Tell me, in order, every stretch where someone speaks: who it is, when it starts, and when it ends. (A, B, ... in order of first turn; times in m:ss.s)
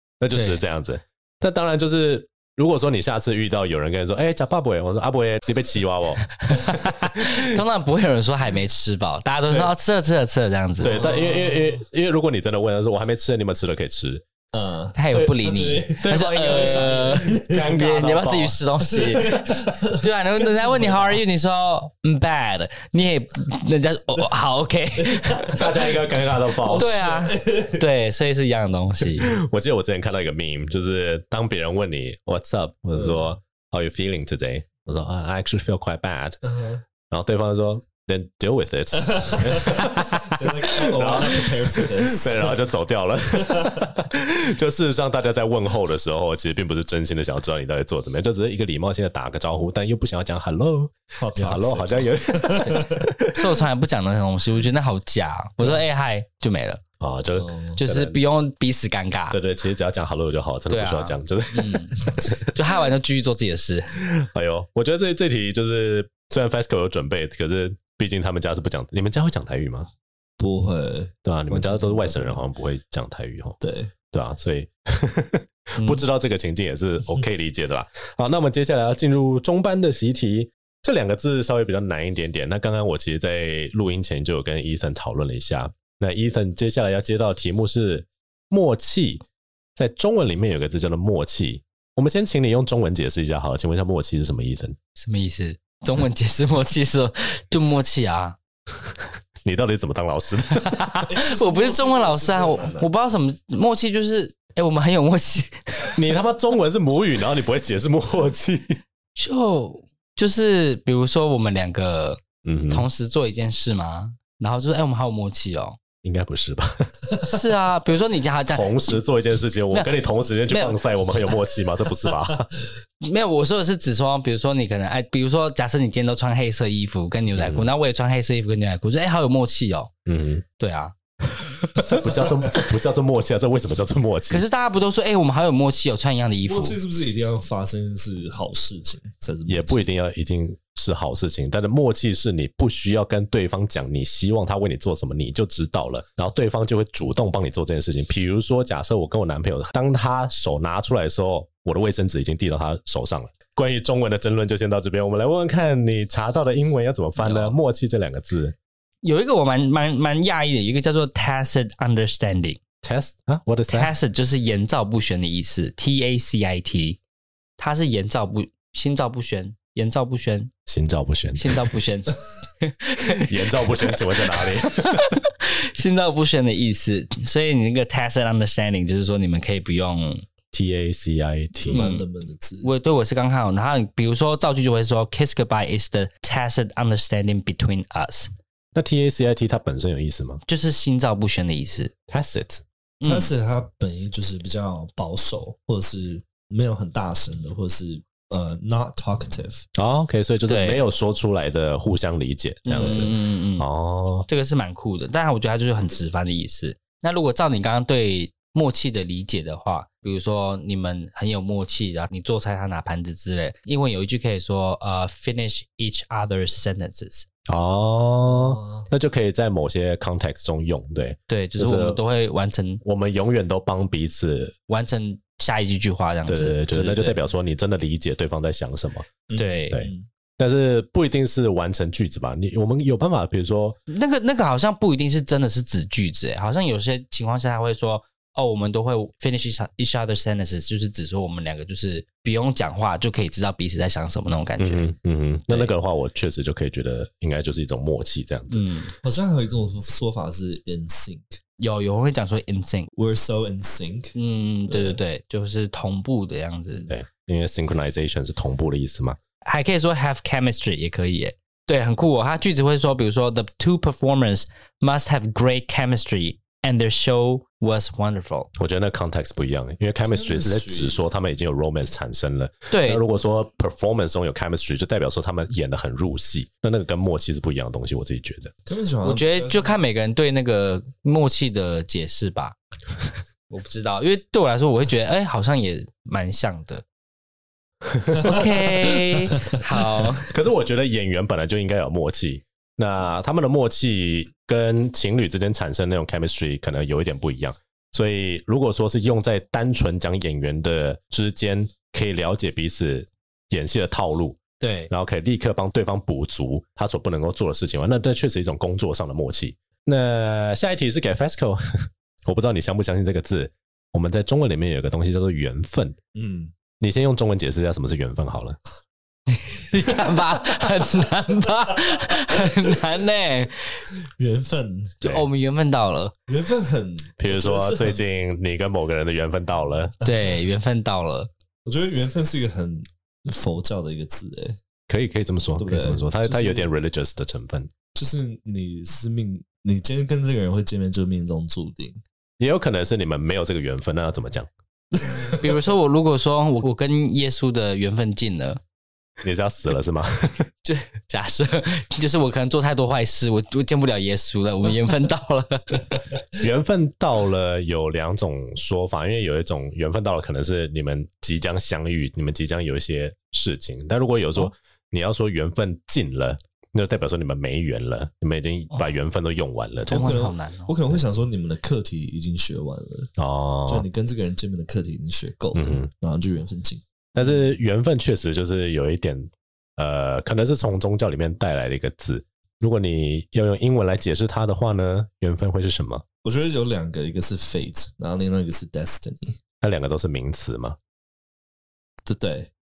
0:00.2-0:07.5 A
0:00.3-0:00.6 B
0:06.4-0:11.0 B
0:10.8-0:14.2 A
0:10.8-0:11.8 C
0:14.5-0:17.7 C
0:14.9-0:25.7 B
0:15.1-0:15.4 A
0:15.9-0:18.6 A
0:18.8-0:21.2 C
0:25.0-0:25.9 C
0:25.5-0:27.0 A
0:26.6-0:27.9 C
0:26.7-0:29.4 B
0:29.1-0:36.4 A
0:32.9-0:33.3 C
0:36.4-0:36.8 C
0:37.1-0:53.4 A
0:39.0-0:42.6 C
0:43.4-0:43.9 C
0:51.2-0:53.1 C
0:52.6-0:56.8 B
0:57.0-0:58.2 A
0:57.3-0:57.8 C
0:57.8-0:59.4 B
0:59.3-1:02.5 A
1:00.7-1:04.0 B
1:04.0-1:09.9 A
1:10.4-1:12.4 C
1:11.2-1:13.6 A
1:13.6-1:13.9 C
1:14.1-1:29.2 A
1:29.8-1:34.8 A
1:35.0-1:38.4 B
1:39.4-1:41.1 A
1:40.6-1:46.0 B
1:41.1-1:42.9 C
1:45.9-1:48.8 A
1:49.2-1:55.8 B
1:52.4-1:52.9 A
1:56.0-1:57.1 A
1:57.2-1:59.0 B
1:58.5-2:02.5 A
2:00.5-2:01.4 B
2:03.0-2:09.9 B
2:07.4-2:07.7 A
2:10.0-2:10.4 A
2:10.6-2:11.9 B
2:11.8-2:14.4 A
2:14.3-2:16.8 B
2:16.4-2:19.8 C
2:19.5-2:38.5 A
2:37.2-2:37.6 B
2:39.0-2:42.6 B
2:42.8-2:43.9 A
2:43.7-2:47.0 B
2:47.6-2:50.5 B
2:50.7-2:51.5 A
2:51.3-3:00.2 B
2:53.2-2:55.1 A
3:00.5-3:01.8 A
3:01.6-3:02.7 C
3:01.7-3:02.0 B
3:02.6-3:08.3 B
3:08.7-3:10.4 A
3:10.5-3:11.9 B
3:12.1-3:12.6 A
3:13.0-3:13.3 B
3:13.0-3:19.6 C
3:19.7-3:24.3 A
3:20.5-3:20.8 B
3:22.6-3:23.7 B
3:22.8-3:23.1 C
3:24.3-3:37.2 B
3:37.5-3:42.0 A
3:38.3-3:38.9 C
3:41.3-3:42.8 B
3:42.8-3:44.5 A
3:44.7-3:47.2 B
3:46.3-3:49.1 A
3:49.3-3:50.1 C
3:49.4-3:49.8 B
3:49.7-3:53.8 A
3:53.9-4:04.9 B
4:04.6-4:08.7 A
4:08.5-4:08.9 B
4:09.0-4:11.4 C
4:11.6-4:12.9 B
4:13.0-4:14.1 C
4:14.2-4:16.9 B
4:14.7-4:15.0 C
4:16.9-4:19.2 A
4:19.4-4:28.5 B
4:28.5-4:38.5 A
4:30.0-4:31.0 C
4:32.7-4:33.0 B
4:38.6-4:39.8 C
4:39.0-4:42.6 B
4:43.5-4:46.8 B
4:47.9-4:48.6 A
4:48.2-4:50.3 B
4:50.2-5:16.0 A
5:04.6-5:04.9 B
5:16.1-5:16.5 C
5:16.8-5:18.6 A
5:19.3-5:23.9 B
5:22.3-5:22.7 C
5:24.2-5:25.0 C
5:25.0-5:26.1 B
5:26.3-5:28.0 C
5:27.2-5:29.9 A
5:30.0-5:31.3 B
5:30.0-5:30.3 C
5:31.6-5:34.6 C
5:34.9-5:37.7 A
5:35.6-5:36.7 C
5:37.9-5:42.0 C
5:42.4-5:44.5 A
5:44.9-5:45.7 C
5:45.4-5:48.6 B
5:49.2-5:50.4 A
5:50.6-5:56.0 B
5:56.4-6:10.1 A
6:09.9-6:10.8 B
6:09.9-6:13.1 C
6:13.2-6:13.8 A
6:13.7-6:17.4 C
6:15.5-6:15.9 A
6:17.1-6:26.0 A
6:26.2-6:29.4 C
6:29.6-6:30.8 A
6:32.0-6:32.5 C